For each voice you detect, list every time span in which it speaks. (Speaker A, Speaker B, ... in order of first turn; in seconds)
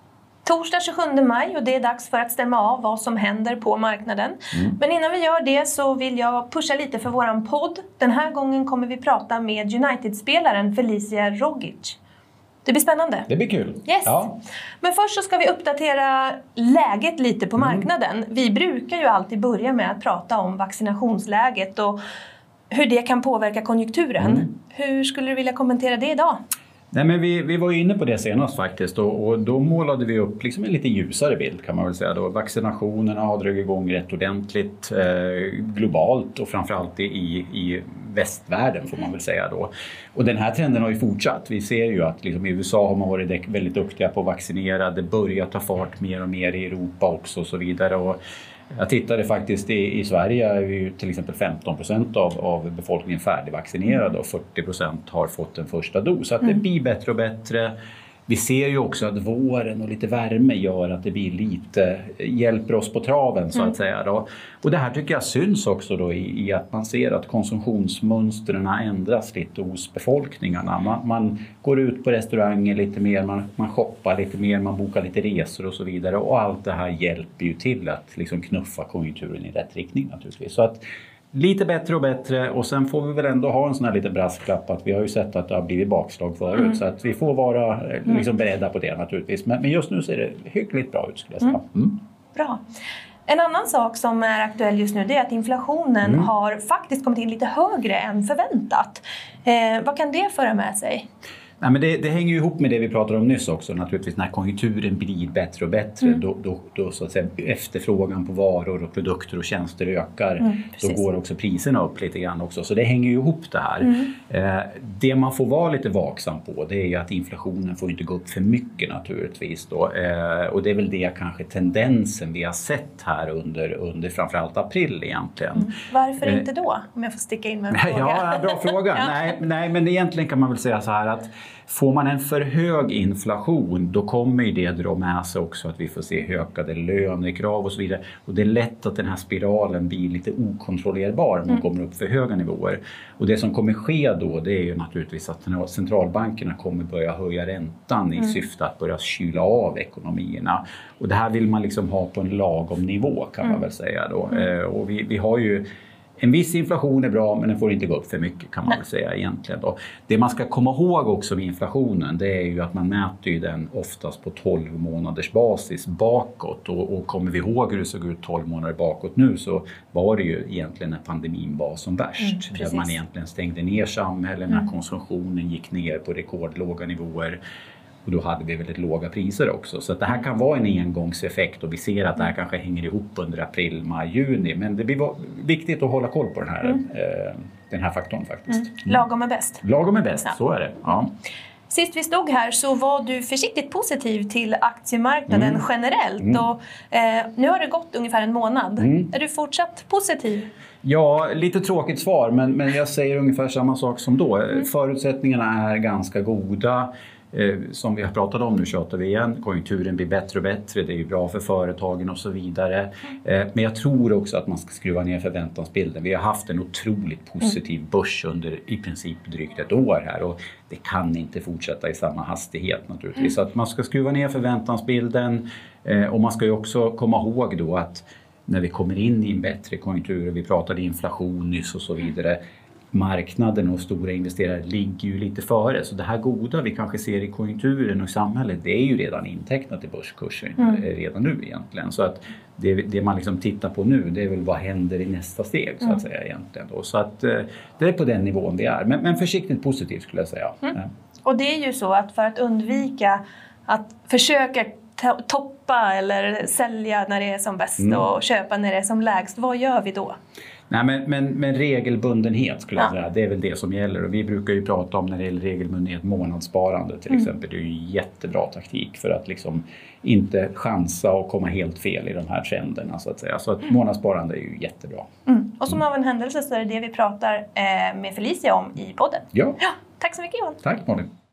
Speaker A: 0.4-12.0, 12.6-13.3, 13.8-22.0, 22.7-26.4, 92.3-92.6, 93.3-101.0, 110.5-110.9, 125.5-129.2, 172.3-172.9, 188.6-189.6, 191.7-200.5, 251.2-260.1, 275.2-280.6
Speaker B: 13.3-14.3, 17.6-17.9, 24.2-24.4, 26.9-48.2, 48.7-57.7, 58.3-92.0, 96.0-96.3, 101.6-126.5, 127.7-155.6, 156.2-177.4, 178.0-189.0, 189.6-191.1, 195.3-195.6, 198.8-199.1, 200.8-232.4, 232.9-250.9, 257.8-258.0, 260.7-275.1, 279.3-279.6, 280.6-281.1